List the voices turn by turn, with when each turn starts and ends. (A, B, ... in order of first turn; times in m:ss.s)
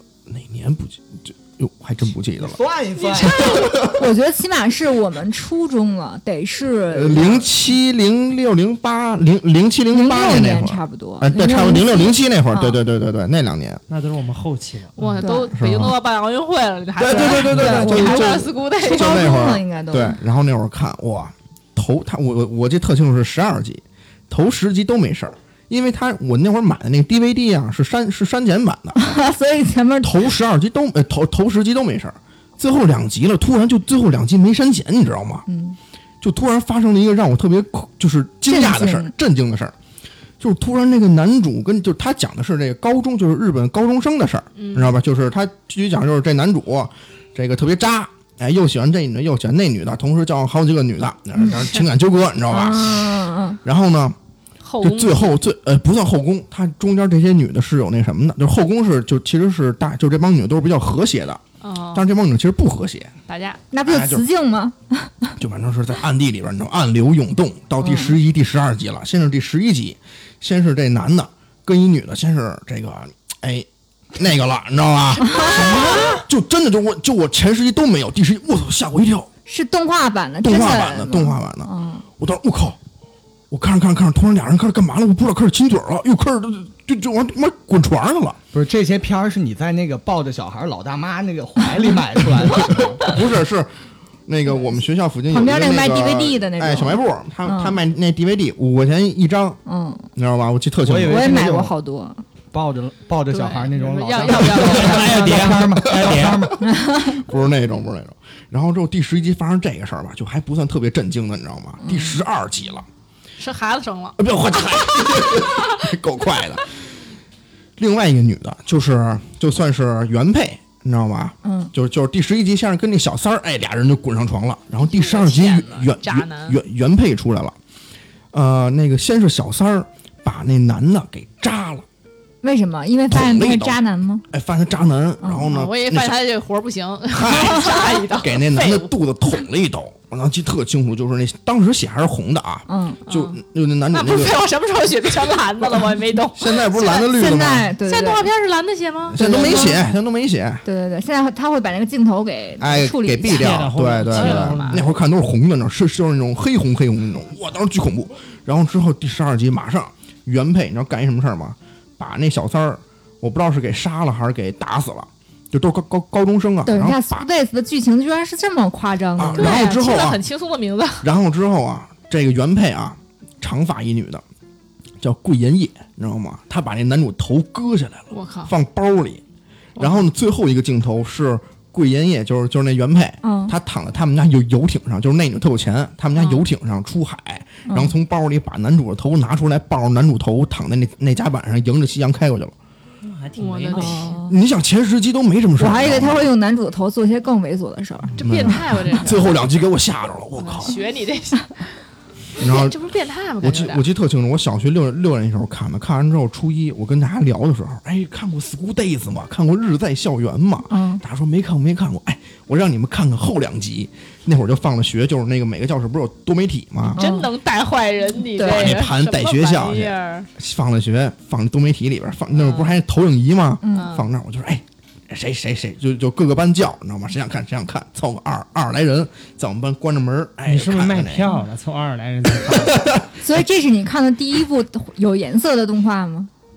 0:00.3-0:02.6 A
0:02.4-0:03.9 B
0:03.1-0:03.8 C
0:03.7-0:07.5 D
0:06.9-0:13.8 A
0:09.9-0:12.8 D
0:13.9-0:15.2 E
0:15.0-0:19.4 C
0:15.2-0:15.5 D
0:15.5-0:15.9 A
0:17.0-0:29.0 A
0:17.1-0:20.2 D
0:29.0-0:30.2 D
0:30.0-0:35.4 A
0:35.5-0:35.8 D
0:36.2-0:39.7 A
0:38.5-0:39.1 D
0:40.4-0:54.2 A
0:44.5-0:45.0 C
0:51.5-0:51.8 C
0:52.5-0:53.6 D
0:54.6-0:55.3 C
0:54.8-1:01.4 A
1:01.6-1:02.1 C
1:01.9-1:03.1 A
1:03.3-1:03.6 C
1:03.7-1:05.4 D
1:03.8-1:04.2 A
1:05.4-1:19.3 A
1:07.8-1:08.2 D
1:15.2-1:16.2 D
1:19.4-1:22.0 D
1:20.4-1:22.8 A
1:23.5-1:28.4 A
1:28.5-1:33.2 B
1:32.7-1:33.7 A
1:34.3-1:39.6 A
1:35.3-1:37.8 D
1:39.6-1:40.0 D
1:40.2-1:41.3 A
1:40.8-1:41.7 B
1:41.1-1:42.2 D
1:42.5-1:46.6 B
1:43.3-1:45.4 C
1:44.5-1:46.5 E
1:45.8-1:46.2 A
1:46.6-1:47.2 D
1:46.9-1:52.9 A
1:51.8-1:52.2 D
1:53.4-1:55.9 C
1:54.2-1:56.8 A
1:57.8-2:07.6 A
2:01.4-2:01.7 D
2:04.8-2:06.6 C
2:08.3-2:11.8 A
2:12.4-2:14.2 D
2:13.1-2:16.2 A
2:15.2-2:15.6 D
2:15.5-2:18.9 C
2:17.1-2:24.4 A
2:22.7-2:23.0 D
2:23.1-2:23.4 C
2:23.9-2:27.1 C
2:26.3-2:27.7 A
2:26.9-2:28.3 D
2:27.8-2:29.7 C
2:29.1-2:30.6 A
2:29.2-2:29.9 D
2:30.6-2:33.6 D
2:32.6-2:47.2 A
2:33.3-2:34.9 E
2:34.1-2:34.8 C
2:46.6-2:49.8 D
2:49.2-2:50.2 A
2:49.4-2:51.1 C
2:51.0-2:54.2 A
2:55.0-2:59.2 A
2:58.1-2:58.5 C
2:59.8-3:00.0 C
2:59.8-3:12.5 A
3:03.2-3:03.5 D
3:06.2-3:06.4 C
3:07.7-3:07.9 D
3:13.0-3:14.1 E
3:13.4-3:14.2 C
3:13.7-3:14.4 D
3:14.2-3:16.3 A
3:15.6-3:18.6 D
3:18.2-3:20.8 A
3:18.2-3:19.4 C
3:20.4-3:21.6 C
3:22.4-3:22.8 A
3:22.4-3:23.8 C
3:23.4-3:37.0 A
3:30.7-3:31.0 D
3:36.9-3:37.3 D
3:37.0-3:40.3 C
3:38.3-3:38.8 D
3:38.4-3:51.4 A
3:42.3-3:42.8 C
3:43.6-3:43.9 D
3:43.7-3:44.1 C
3:50.4-3:52.8 E
3:52.4-3:53.0 A
3:53.2-3:56.3 D